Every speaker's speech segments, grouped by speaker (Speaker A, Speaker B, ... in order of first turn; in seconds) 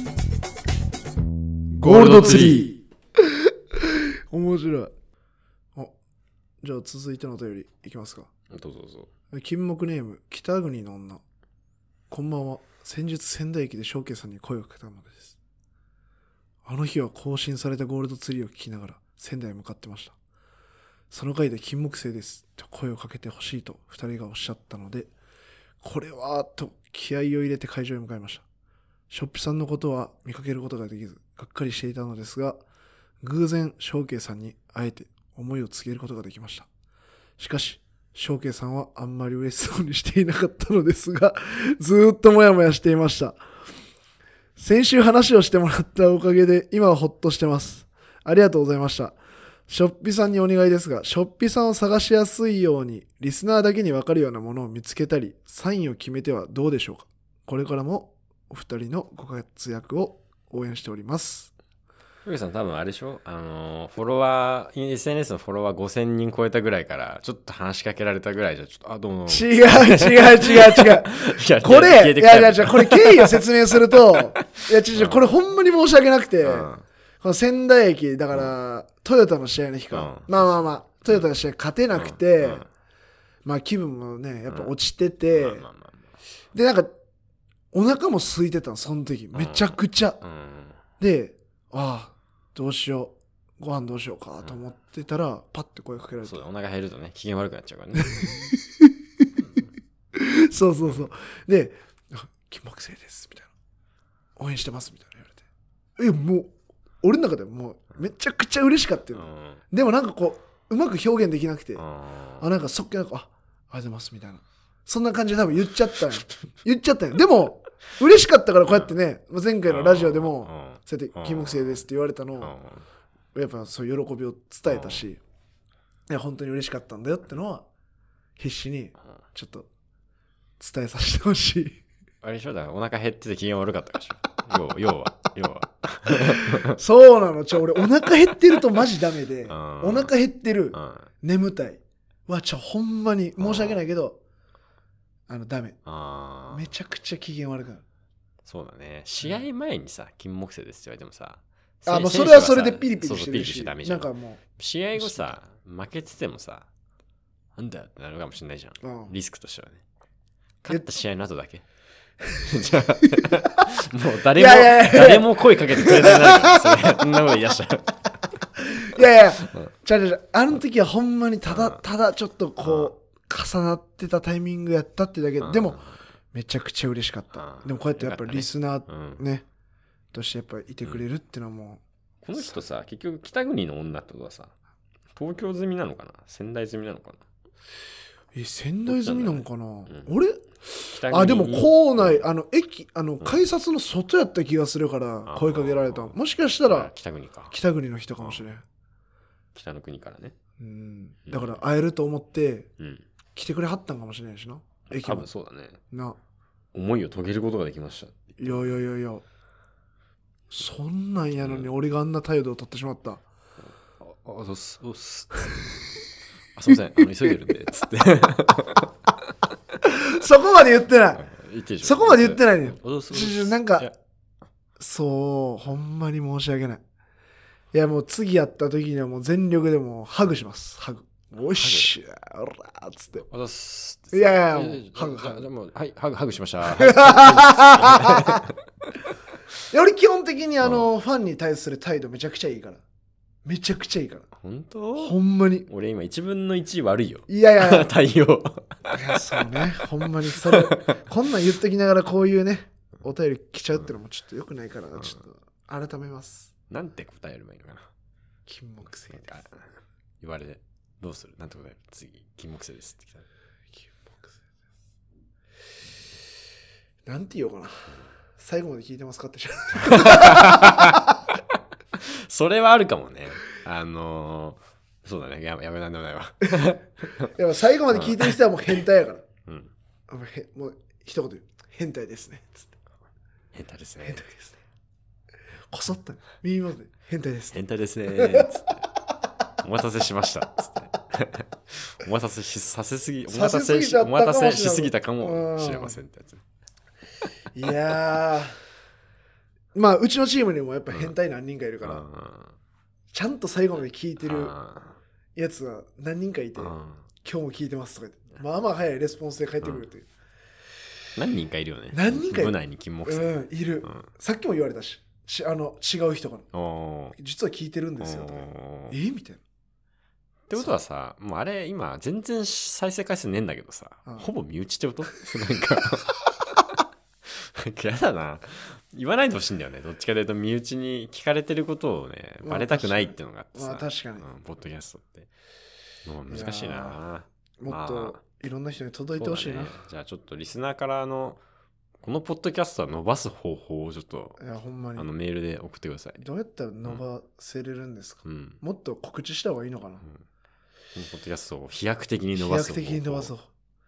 Speaker A: 1.8-2.7, 8.5-9.1, 62.2-75.3, 76.4-76.8, 79.9-80.5, 81.9-82.7, 84.5-84.7, 85.3-86.1, 89.3-90.8, 96.2-98.4, 109.1-109.6, 111.8-112.5, 118.7-119.0, 119.7-121.9, 122.4-122.8, 124.7-125.1, 132.2-136.8, 139.5-140.1, 140.7-141.1, 143.4-143.8, 145.8-146.7, 148.4-156.7, 157.6-159.8, 160.6-161.6, 162.4-168.0, 171.5-171.8, 172.6-172.9, 175.4-176.0, 177.3-179.2, 182.2-184.5, 185.1-187.2, 188.9-190.1, 190.9-192.2, 195.3-197.5, 198.2-198.4, 199.5-200.3, 201.3-201.6, 202.8-203.1, 204.9-205.8, 206.7-208.8, 211.4-211.7, 214.0-215.9, 216.6-218.9, 221.2-223.9, 231.5-231.9, 233.2-238.6, 240.6-240.9, 244.4-245.2, 245.7-251.0, 256.7-257.9, 259.1-259.7, 260.2-263.3, 269.7-277.3, 277.9-278.4, 279.5-279.7, 283.5-284.6, 287.5-288.9, 289.6-296.4, 301.8-302.6, 304.2-305.0, 306.6-307.1, 311.1-313.3, 316.5-317.2, 318.0-319.0, 320.5-326.6, 327.2-335.3, 336.1-338.2, 339.1-341.4, 342.0-344.4, 345.0-346.2, 348.2-348.6, 350.9-353.3
Speaker B: 1.8-4.9, 6.6-8.3, 9.3-11.2, 12.1-15.4, 16.6-20.1, 21.1-25.1, 25.8-28.4, 29.1-32.6, 33.2-36.7, 37.4-43.4, 44.6-49.2, 49.7-61.5, 69.3-82.7, 83.5-85.7, 86.5-86.9, 87.7-90.2, 91.0-96.4, 98.0-99.3, 100.2-103.5, 104.4-105.4, 106.0-111.8, 112.4-122.5, 123.3-125.2, 126.1-127.7, 128.4-129.7, 130.6-131.8, 136.1-144.2, 145.3-145.8, 146.5-147.8, 151.9-154.4, 155.0-155.3, 158.8-159.1, 163.0-163.7, 164.3-167.1, 168.6-175.8, 176.3-179.5, 180.1-181.8, 182.3-182.6, 188.3-196.9, 197.5-198.6, 200.6-202.7, 203.3-205.3, 205.9-206.2, 208.4-209.2, 210.5-213.2, 217.0-217.3, 219.8-221.2, 221.8-223.9, 224.8-226.8, 227.7-233.2, 234.1-235.4, 236.7-238.5, 239.7-242.8, 243.4-244.3, 245.0-245.7, 247.3-247.9, 248.9-256.5, 258.5-259.4, 263.7-264.4, 267.1-271.3, 276.4-279.2, 280.1-282.7, 285.7-288.5, 293.3-296.0, 297.5-298.6, 299.8-302.1, 303.1-304.6, 305.4-310.1, 311.9-316.5, 317.2-319.4, 332.4-334.3, 336.3-337.0, 337.6-339.8, 344.4-345.1, 346.2-350.1, 352.4-353.5